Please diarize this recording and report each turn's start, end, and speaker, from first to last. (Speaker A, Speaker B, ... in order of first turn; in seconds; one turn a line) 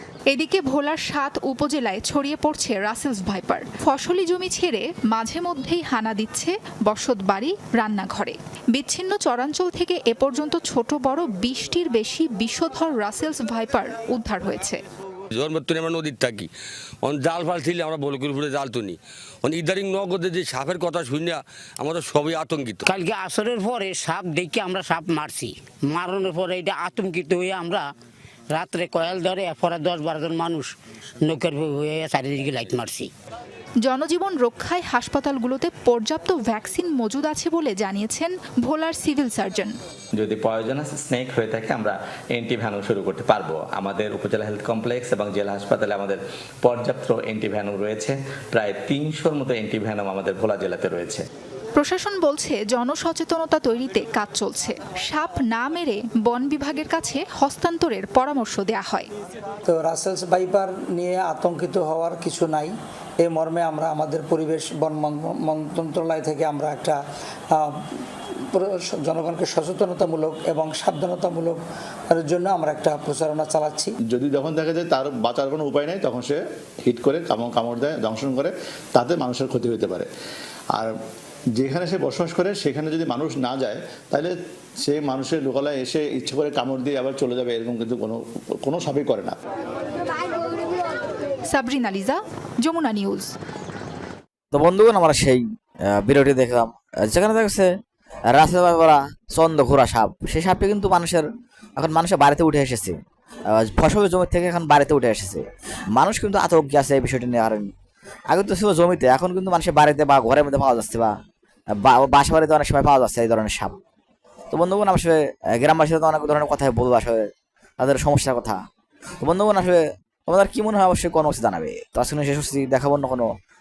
Speaker A: 0.3-14.8
Speaker B: 15.3-16.5
Speaker B: 17.0-22.8
Speaker C: 22.9-27.9
Speaker C: 28.5-33.1
Speaker A: 33.8-39.7
Speaker D: 40.2-51.2
Speaker B: 50.8-51.2
Speaker A: 51.8-59.1
Speaker E: 59.7-67.0
Speaker E: 68.5-73.9
Speaker F: 74.1-80.1
Speaker F: 81.6-84.3
Speaker F: 84.9-89.4
Speaker A: 91.5-93.3
Speaker G: 94.5-95.4
Speaker G: 96.0-97.7
Speaker G: 98.3-101.2
Speaker G: 101.8-102.9
Speaker G: 103.5-105.4
Speaker G: 106.0-107.7
Speaker G: 108.3-111.1
Speaker G: 111.8-113.8
Speaker G: 114.5-117.2
Speaker G: 117.8-118.6
Speaker G: 119.2-123.3